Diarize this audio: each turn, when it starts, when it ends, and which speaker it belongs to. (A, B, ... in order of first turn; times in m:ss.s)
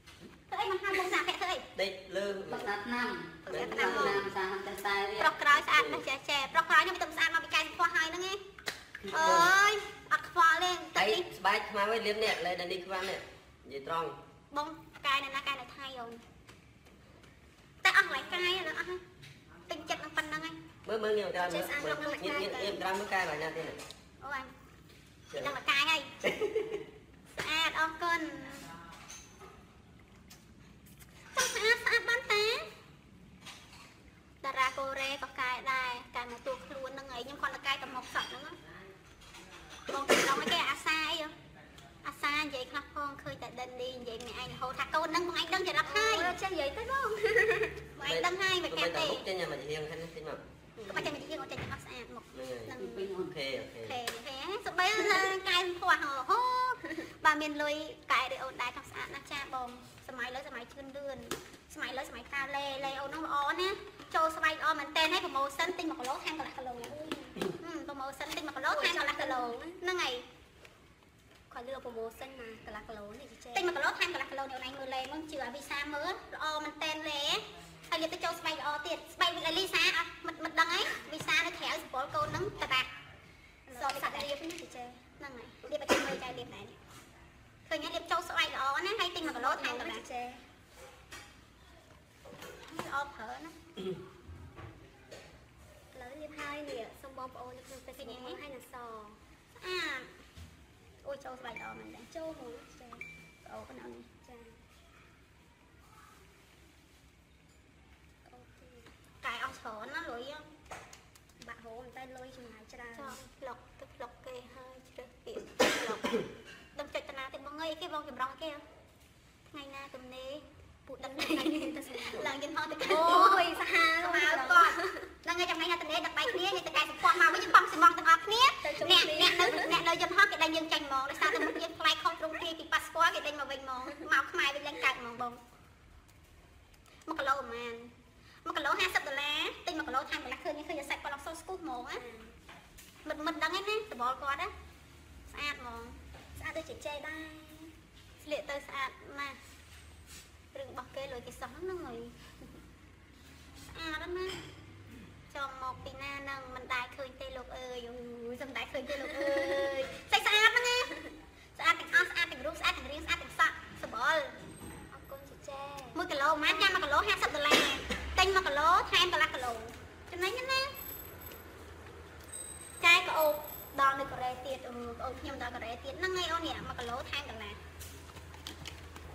0:00.5-0:01.7 A
0:01.8-0:02.7 B
0:02.5-0:05.3 C
0:03.5-0:04.2 A
0:03.5-0:04.3 B
0:05.2-0:08.4 A
0:05.5-0:06.0 B
0:09.1-0:11.2 A
0:09.1-0:09.6 B
0:11.0-0:14.2 B
0:14.5-0:16.2 A
0:17.8-0:19.0 A
0:19.7-0:20.6 A
0:20.8-0:23.8 B
0:21.4-0:22.8 D
0:24.2-0:24.5 A
0:25.3-0:25.6 B
0:25.4-0:26.1 A
0:26.2-0:26.8 B
0:27.3-0:28.7 A
0:31.3-0:32.7 A
0:34.4-0:38.6 A
0:39.9-0:41.3 A
0:42.0-0:46.4 A
0:45.8-0:47.8 D
0:48.0-0:49.3 A
0:48.0-0:50.4 B
0:50.8-0:51.1 D
0:50.9-0:53.1 A
0:52.3-0:54.0 B
0:52.7-0:53.3 C
0:53.9-1:07.0 A
1:06.8-1:07.4 D
1:07.5-1:10.2 A
1:08.7-1:09.8 D
1:11.5-1:13.8 D
1:13.5-1:22.9 A
1:23.7-1:25.0 D
1:23.8-1:24.3 A
1:25.2-1:26.8 A
1:27.7-1:30.0 A
1:29.2-1:30.4 D
1:32.7-1:33.6 A
1:35.9-1:39.2 D
1:37.9-1:38.4 A
1:39.6-1:40.1 A
1:41.0-1:42.1 A
1:42.1-1:43.1 D
1:43.4-1:44.1 A
1:44.2-1:44.6 D
1:48.2-1:48.9 D
1:49.2-1:50.5 A
1:51.4-1:53.2 D
1:53.0-1:58.6 A
1:59.5-2:00.4 A
2:00.9-2:02.2 D
2:01.0-2:15.4 A
2:02.8-2:05.1 D
2:08.6-2:09.8 D
2:17.1-2:17.9 A
2:18.4-2:22.0 A
2:22.0-2:22.4 D
2:23.0-2:24.5 A
2:25.3-2:26.0 A
2:26.4-2:27.7 D
2:28.2-2:29.4 A
2:30.5-2:32.2 A
2:33.7-2:34.4 A
2:35.3-2:41.0 A
2:39.2-2:39.5 D
2:41.6-2:44.4 A
2:44.9-2:46.8 D
2:46.0-2:50.7 A
2:52.8-2:57.6 A